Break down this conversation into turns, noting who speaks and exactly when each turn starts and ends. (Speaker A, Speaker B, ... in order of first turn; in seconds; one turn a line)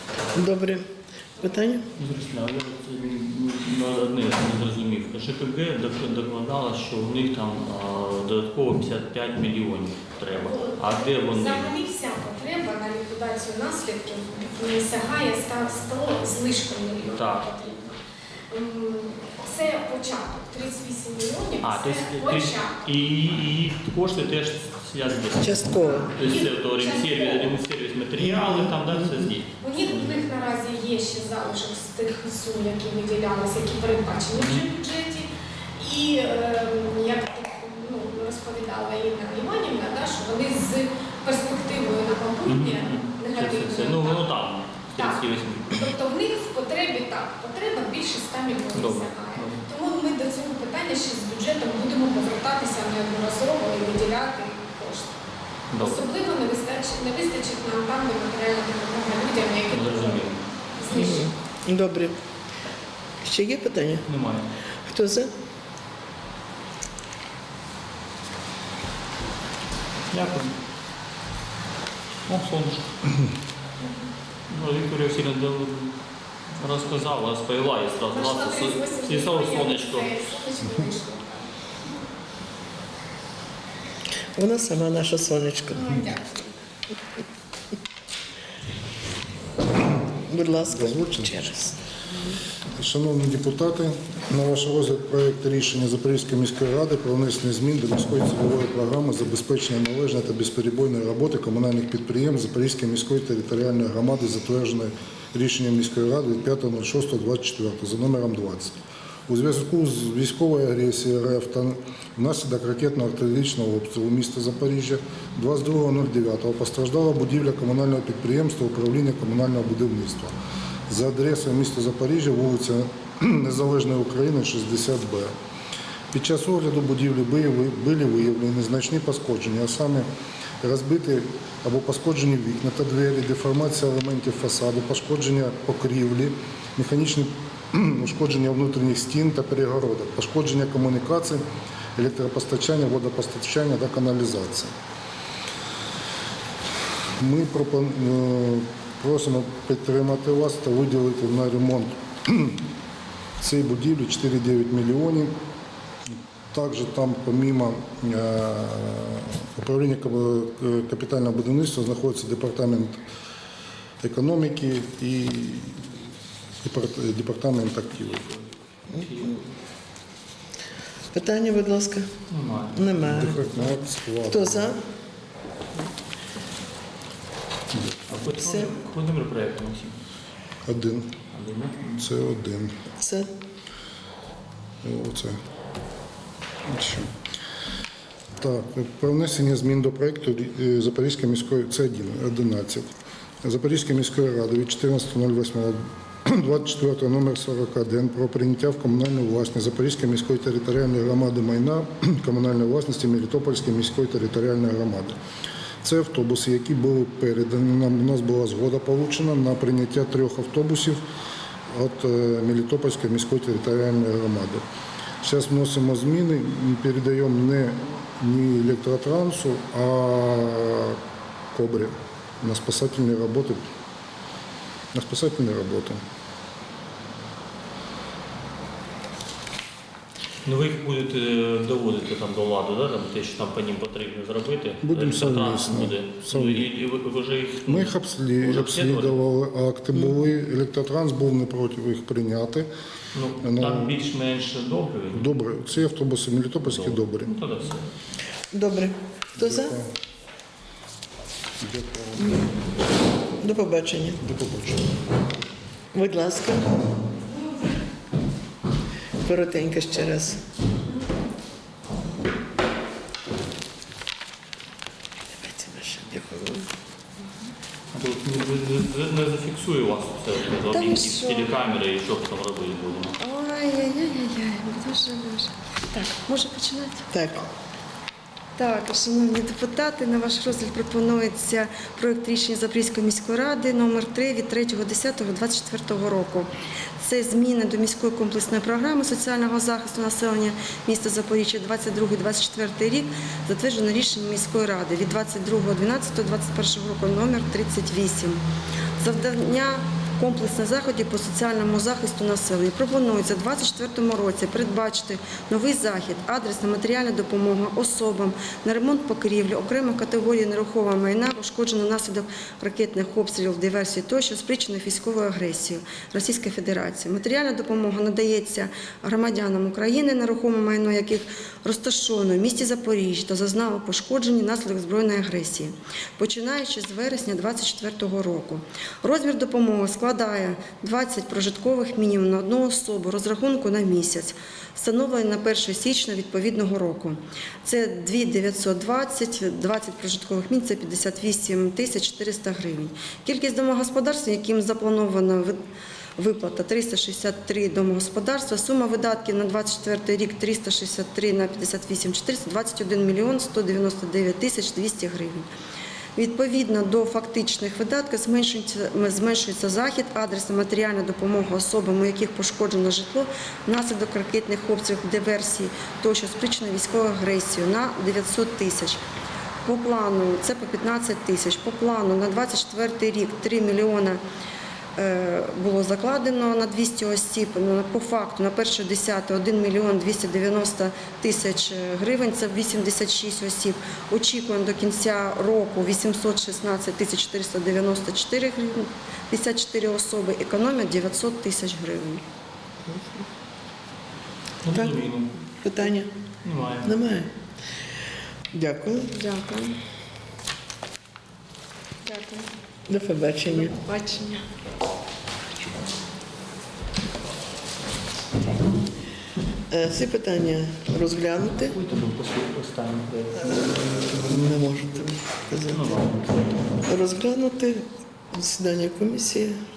Speaker A: 0.3-1.8
Speaker B: 1.9-11.7
Speaker C: 10.3-17.9
Speaker B: 17.1-17.4
Speaker C: 18.5-22.8
Speaker B: 21.6-25.6
Speaker A: 25.4-26.1
Speaker C: 25.7-27.5
Speaker B: 26.1-30.1
Speaker A: 28.2-29.2
Speaker C: 29.6-44.2
Speaker B: 34.4-34.6
Speaker B: 42.5-45.8
Speaker C: 44.9-55.1
Speaker B: 48.7-49.6
Speaker B: 55.7-56.0
Speaker C: 55.8-61.3
Speaker B: 59.7-60.4
Speaker A: 60.9-62.2
Speaker A: 63.2-64.0
Speaker B: 64.1-64.5
Speaker A: 64.8-65.3
Speaker B: 70.1-70.5
Speaker B: 72.3-72.9
Speaker B: 74.5-75.9
Speaker B: 76.6-80.2
Speaker C: 78.1-81.5
Speaker A: 84.3-86.0
Speaker C: 85.7-86.5
Speaker A: 90.3-91.7
Speaker D: 90.7-91.4
Speaker D: 92.8-108.7
Speaker D: 109.3-120.3
Speaker D: 120.9-125.3
Speaker D: 126.1-130.1
Speaker D: 130.6-141.4
Speaker D: 141.9-144.7
Speaker D: 147.2-152.6
Speaker D: 153.4-155.3
Speaker D: 156.5-163.0
Speaker D: 164.0-165.8
Speaker D: 166.6-168.2
Speaker B: 168.0-169.5
Speaker A: 168.9-169.3
Speaker A: 171.1-172.1
Speaker B: 172.3-173.8
Speaker A: 172.7-173.3
Speaker D: 173.0-174.7
Speaker A: 174.3-174.8
Speaker D: 177.7-178.1
Speaker B: 178.1-180.0
Speaker A: 178.3-178.7
Speaker D: 180.6-181.1
Speaker B: 181.3-182.0
Speaker D: 182.0-182.8
Speaker A: 183.0-183.3
Speaker D: 184.8-185.4
Speaker D: 186.7-187.1
Speaker D: 188.4-192.8
Speaker D: 193.4-205.2
Speaker D: 205.8-211.0
Speaker D: 211.7-214.6
Speaker D: 215.2-221.0
Speaker D: 221.5-223.6
Speaker D: 224.9-226.0
Speaker B: 230.4-239.2
Speaker D: 234.8-236.7
Speaker D: 237.7-242.7
Speaker B: 243.1-245.3
Speaker D: 243.4-243.9
Speaker D: 245.1-247.3
Speaker B: 246.6-247.8
Speaker A: 248.5-249.7
Speaker D: 249.4-249.9
Speaker D: 251.6-252.4
Speaker A: 253.4-254.2
Speaker D: 254.2-254.9
Speaker A: 255.9-256.8
Speaker A: 259.2-260.4
Speaker A: 265.3-266.7
Speaker B: 267.9-273.1
Speaker E: 270.7-271.5
Speaker E: 273.2-277.1
Speaker A: 277.1-277.5
Speaker E: 278.6-298.4
Speaker E: 299.0-345.6
Speaker E: 346.2-355.5
Speaker E: 356.1-369.0
Speaker E: 369.6-374.2
Speaker E: 374.9-392.2
Speaker A: 392.9-393.2
Speaker B: 394.6-395.4
Speaker A: 395.5-396.1
Speaker B: 396.4-396.9
Speaker A: 396.8-397.3
Speaker A: 398.5-399.1
Speaker E: 399.1-399.8
Speaker E: 402.1-402.5
Speaker A: 402.9-403.8
Speaker E: 403.5-404.4
Speaker A: 409.7-411.8
Speaker B: 411.6-414.4
Speaker A: 414.1-416.0
Speaker B: 415.7-416.2
Speaker A: 416.8-419.6